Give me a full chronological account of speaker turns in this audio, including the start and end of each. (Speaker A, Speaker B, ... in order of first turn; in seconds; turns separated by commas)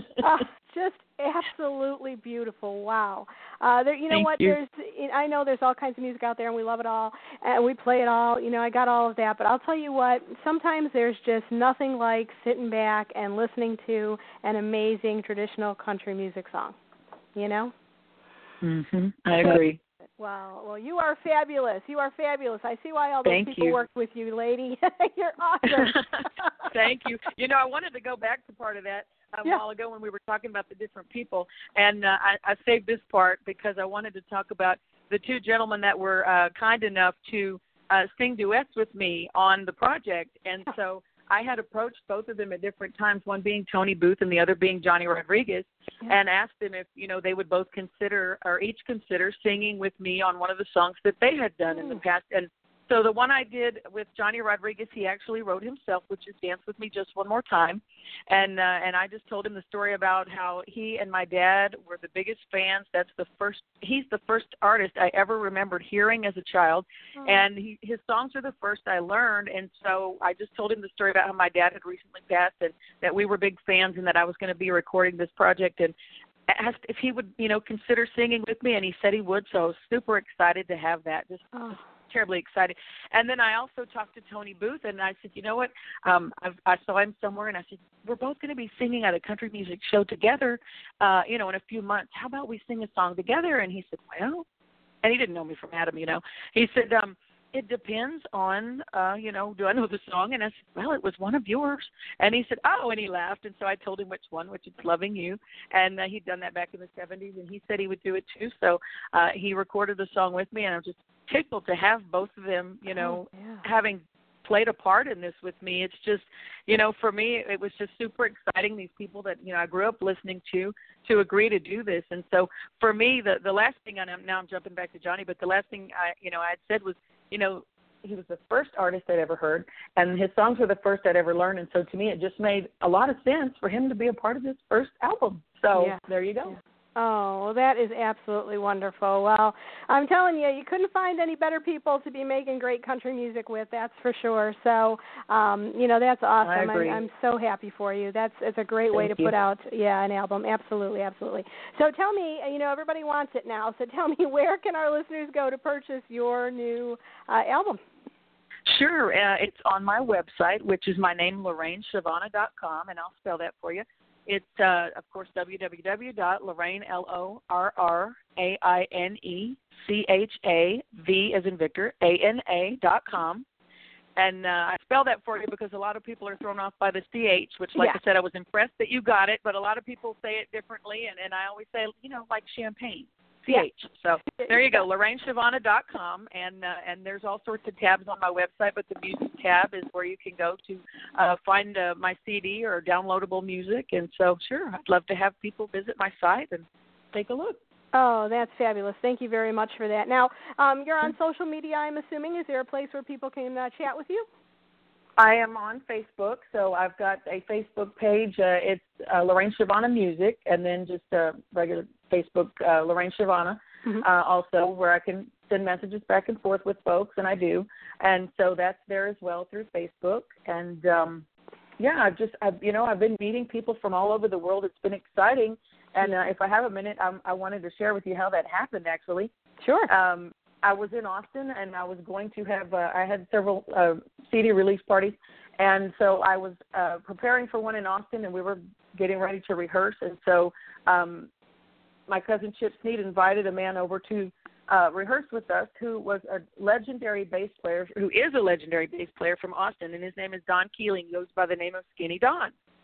Speaker A: 0.2-16.8, Speaker B: 4.1-4.6, Speaker A: 17.3-17.7, Speaker B: 18.6-19.8, Speaker A: 20.2-26.0, Speaker B: 23.2-23.8, Speaker B: 25.7-75.9, Speaker A: 51.7-52.0, Speaker A: 67.2-67.4, Speaker B: 76.5-94.4, Speaker A: 81.5-81.8, Speaker B: 95.0-136.5, Speaker A: 112.9-113.6, Speaker A: 135.7-157.8, Speaker B: 146.4-147.0, Speaker B: 148.9-149.3, Speaker B: 158.7-173.4, Speaker B: 174.2-197.6, Speaker A: 184.4-184.9, Speaker A: 197.9-204.3, Speaker B: 205.2-221.2, Speaker B: 221.8-229.3, Speaker A: 229.6-229.9, Speaker B: 229.9-241.3, Speaker B: 242.1-252.5